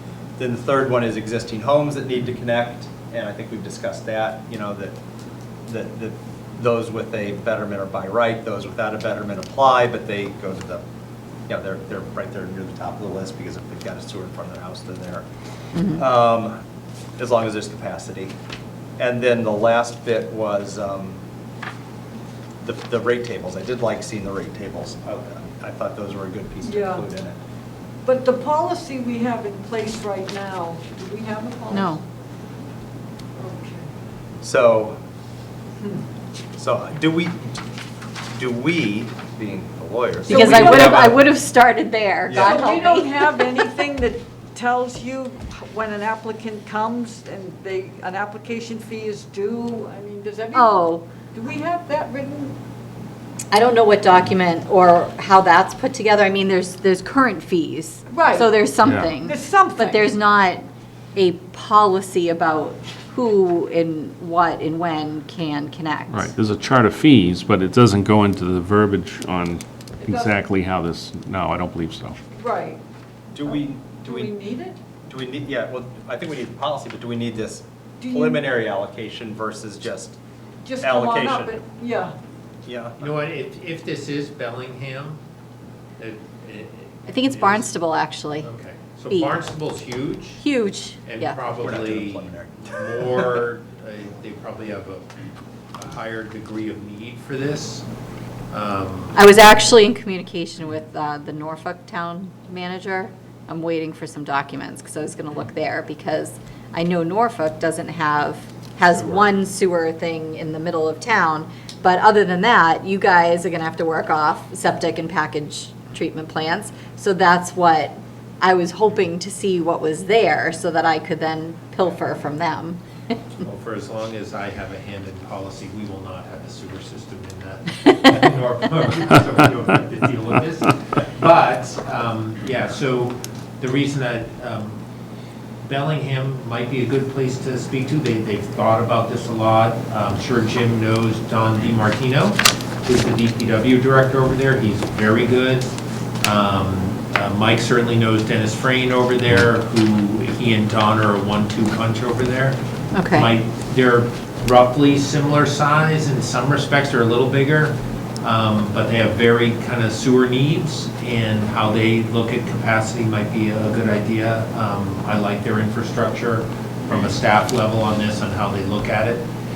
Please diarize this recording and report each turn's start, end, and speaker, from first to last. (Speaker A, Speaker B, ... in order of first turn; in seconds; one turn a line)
Speaker A: 0.4-5.0
Speaker A: 5.7-10.8
Speaker A: 11.5-15.2
Speaker B: 15.8-16.0
Speaker A: 15.9-16.6
Speaker A: 17.2-18.3
Speaker A: 19.0-21.2
Speaker A: 22.6-27.4
Speaker C: 26.6-27.1
Speaker C: 28.1-32.0
Speaker B: 31.7-32.0
Speaker C: 33.4-33.9
Speaker A: 34.4-35.0
Speaker A: 36.6-37.4
Speaker A: 38.4-41.2
Speaker B: 40.3-43.6
Speaker C: 40.3-41.1
Speaker A: 42.3-42.6
Speaker C: 42.4-52.6
Speaker B: 50.5-51.1
Speaker B: 53.5-60.6
Speaker C: 58.1-58.6
Speaker D: 58.8-59.1
Speaker C: 59.2-60.2
Speaker B: 61.1-66.3
Speaker D: 66.1-72.2
Speaker C: 70.0-70.3
Speaker C: 72.3-72.8
Speaker A: 73.3-74.3
Speaker C: 73.9-74.8
Speaker A: 75.1-80.2
Speaker C: 78.0-78.4
Speaker C: 80.6-82.2
Speaker A: 80.8-81.6
Speaker A: 82.7-83.1
Speaker E: 83.0-85.2
Speaker E: 86.0-87.8
Speaker B: 87.1-88.5
Speaker E: 88.4-90.4
Speaker B: 89.1-89.4
Speaker B: 90.4-91.4
Speaker E: 91.0-95.1
Speaker A: 91.5-92.7
Speaker E: 95.8-97.9
Speaker E: 98.5-99.2
Speaker B: 99.2-123.3
Speaker E: 123.4-134.8
Speaker E: 135.6-152.6
Speaker B: 152.9-153.3
Speaker E: 153.1-169.3